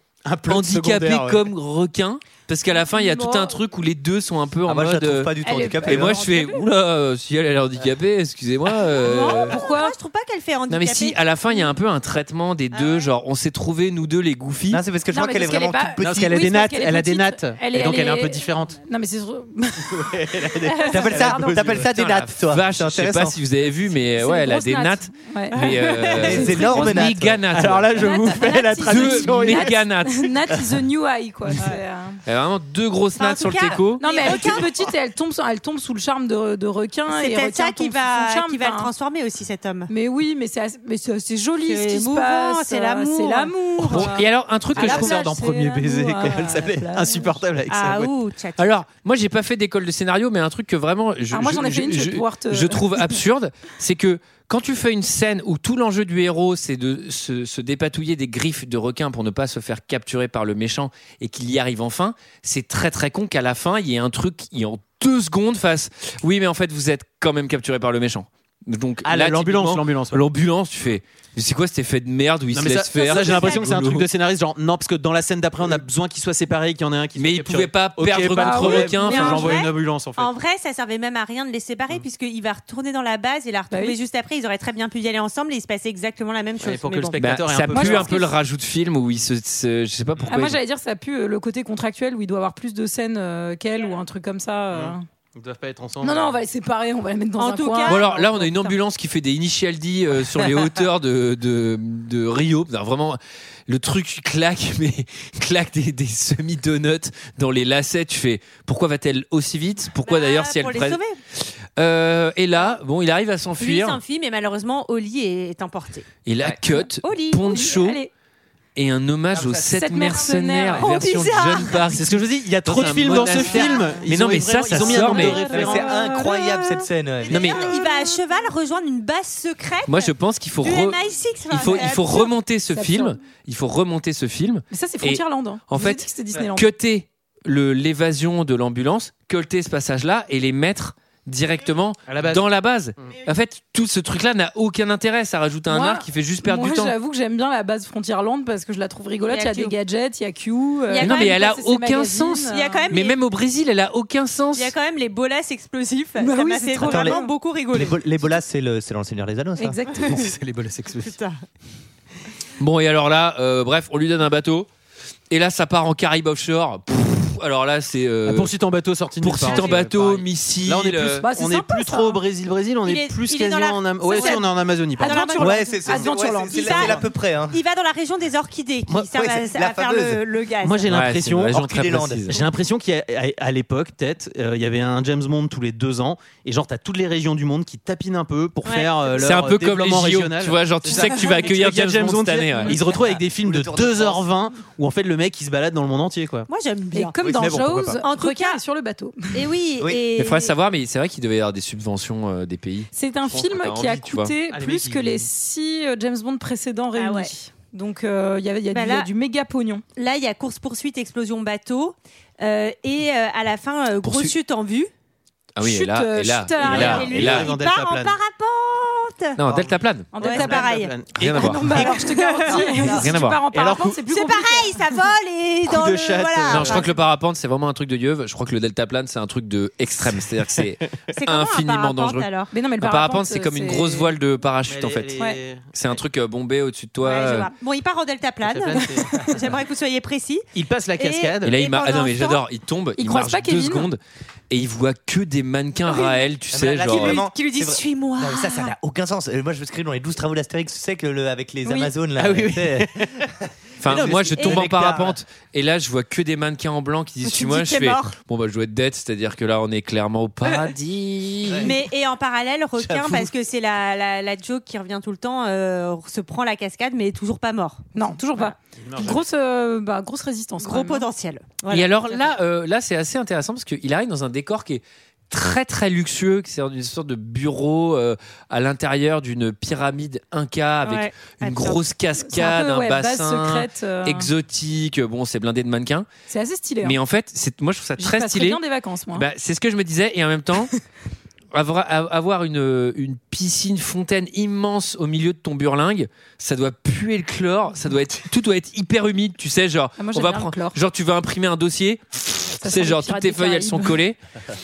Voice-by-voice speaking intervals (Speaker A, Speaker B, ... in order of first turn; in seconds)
Speaker A: 0.2-1.4, 16.0-18.8, 19.9-21.9, 27.5-29.8, 43.8-44.1, 44.7-48.1, 69.0-70.2, 72.5-80.3, 86.6-88.2, 94.7-96.4, 121.8-126.0, 142.1-142.4, 160.1-161.2, 168.2-175.2, 180.6-181.7, 182.3-196.5, 197.2-198.0, 204.5-205.3, 216.6-218.1, 219.5-219.8, 220.3-221.9, 222.6-224.0, 225.7-226.9, 234.7-236.0, 238.4-239.2, 240.5-241.5, 252.2-253.3, 253.9-255.0, 268.8-269.2
Speaker B: 0.5-9.6, 10.7-14.8, 21.9-28.1, 28.9-30.3, 32.2-34.6, 43.9-45.2, 48.6-74.1, 77.2-79.6, 87.2-90.6, 97.9-114.0, 116.2-118.0, 118.7-125.4, 127.3-127.7, 129.9-146.9, 151.0-154.7, 162.6-164.7, 165.3-168.5, 169.2-171.3, 180.9-182.4, 189.2-192.8, 200.2-204.3, 214.0-214.3, 215.6-217.5, 219.4-220.1, 221.2-221.7, 223.0-223.5, 226.5-235.1, 235.7-237.5, 241.4-244.0, 244.5-247.2, 253.8-261.7, 271.7-286.1, 286.8-290.7, 291.5-304.2
Speaker C: 2.7-3.5, 5.4-6.6, 9.4-9.9, 15.1-21.8, 24.2-25.7, 26.2-26.9, 28.0-32.2, 34.0-38.9, 39.9-44.2, 44.7-47.3, 51.3-53.1, 78.3-79.6, 83.7-84.0, 87.7-88.3, 90.3-95.0, 96.0-98.7, 117.4-118.1, 119.7-120.9, 127.7-128.1, 132.7-133.2, 134.7-136.7, 145.7-152.9, 156.2-157.3, 159.6-160.1, 171.2-172.2, 174.0-174.4, 175.0-177.0, 196.9-199.4, 202.9-209.8, 215.6-217.0, 220.1-220.7, 221.3-224.8, 232.5-234.1, 238.9-239.3, 243.0-243.9, 267.9-271.1, 282.2-284.3, 286.3-287.0, 288.0-289.2, 300.0-300.8, 302.6-304.0
Speaker D: 4.7-6.2, 14.7-16.4, 20.9-23.4, 26.1-27.4, 119.3-120.2, 125.4-127.6, 156.8-157.2, 157.7-159.8, 175.4-177.6, 179.1-180.2, 181.5-182.3, 193.4-194.2, 197.2-197.9, 246.5-252.9, 254.0-255.2, 261.5-261.7, 262.8-263.3
Speaker E: 9.0-11.7, 12.7-13.1, 25.6-26.3, 33.1-34.9, 37.1-39.9, 41.6-44.2, 47.7-48.7, 73.0-73.7, 79.1-87.2, 97.4-98.2, 110.0-111.2, 113.6-116.1, 117.0-117.6, 120.8-121.8, 122.9-124.0, 124.7-132.3, 149.3-149.7, 150.9-151.5, 152.5-153.2, 154.5-158.1, 161.0-161.4, 169.4-169.8, 172.8-174.4, 175.0-180.9, 188.6-188.9, 190.9-191.4, 196.5-197.2, 198.0-198.6, 199.3-200.5, 207.0-207.3, 208.7-209.1, 209.9-214.9, 216.6-219.4, 220.2-223.0, 224.1-226.9, 231.1-232.5, 237.0-240.5, 241.0-242.4, 245.8-246.2, 246.8-248.7, 257.2-258.1, 261.6-267.9, 270.6-272.2, 280.8-281.8